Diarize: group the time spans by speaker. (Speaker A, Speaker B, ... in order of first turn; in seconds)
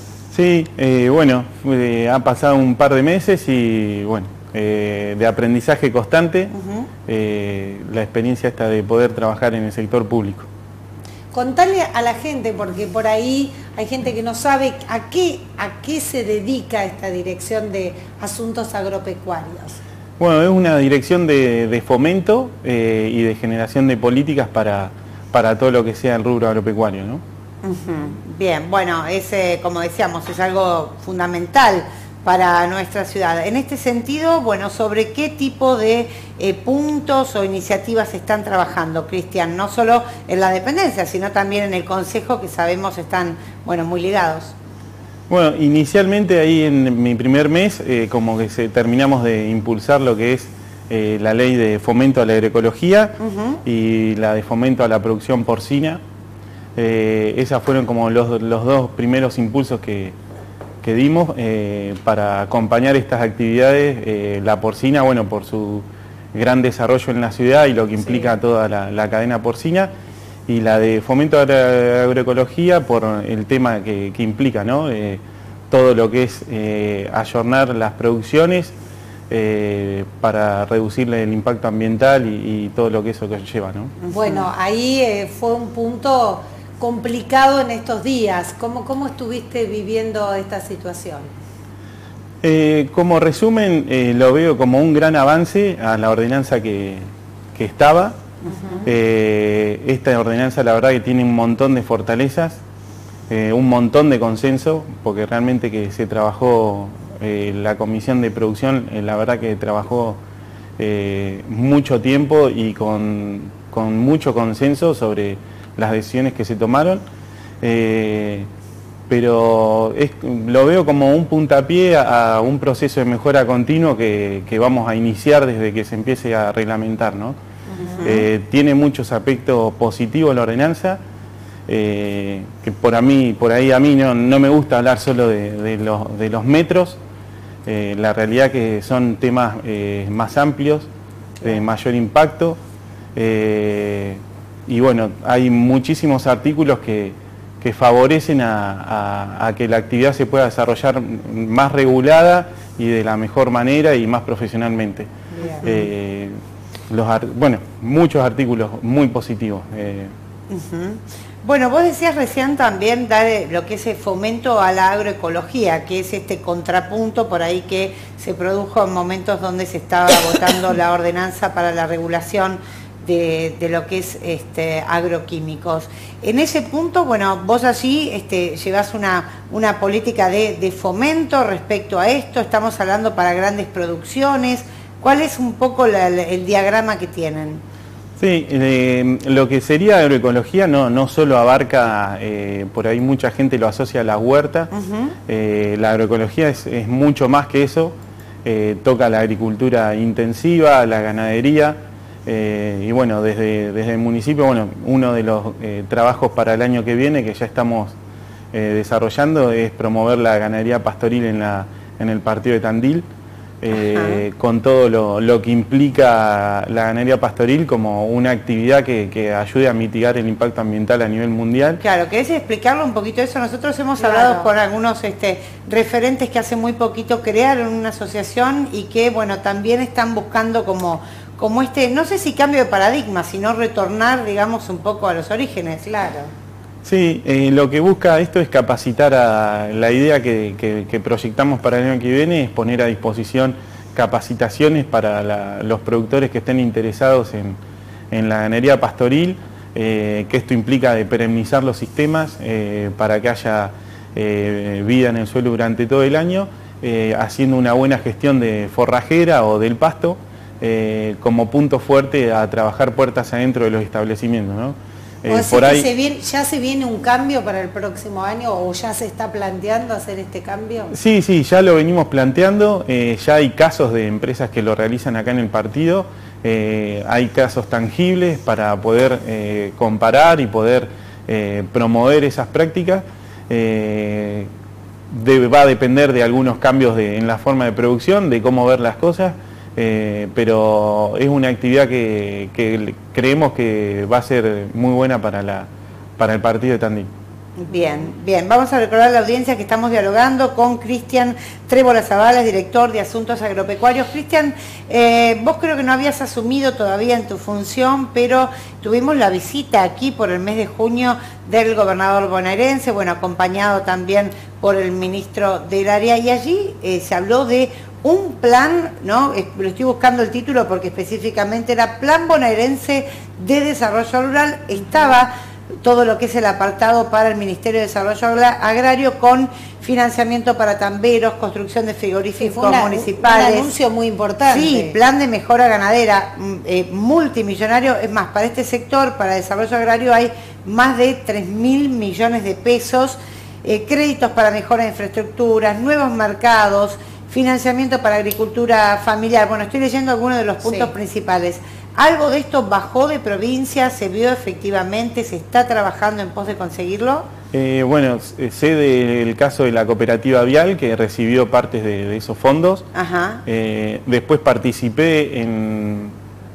Speaker A: 0.3-6.5, 7.1-10.5, 20.2-27.2, 45.3-56.0, 56.8-60.1, 60.8-69.9, 70.5-78.7, 79.3-83.9, 92.4-98.2, 98.8-102.6, 103.3-110.2, 110.8-117.0, 117.6-118.5, 119.1-127.3, 128.0-131.0, 131.7-137.0, 137.7-140.9, 141.4-142.6, 143.2-155.1, 155.6-156.4, 156.9-160.1, 188.2-194.7, 195.3-207.9, 208.5-213.1, 213.6-221.8, 236.8-247.6, 248.1-265.9, 270.9-284.5, 285.1-297.1, 357.5-362.9, 363.4-366.1
Speaker B: 6.5-6.9, 27.6-44.5, 53.2-53.6, 84.0-84.5, 127.8-128.3, 160.5-187.6, 194.7-195.1, 213.7-214.2, 221.8-235.9, 297.6-325.3, 325.8-333.7, 334.5-357.3, 362.9-363.4
Speaker C: 11.3-19.8, 84.1-91.3, 98.5-98.8, 127.7-128.1, 155.3-155.7, 224.0-224.5, 235.8-236.3, 265.2-270.9, 332.4-334.9, 350.6-350.9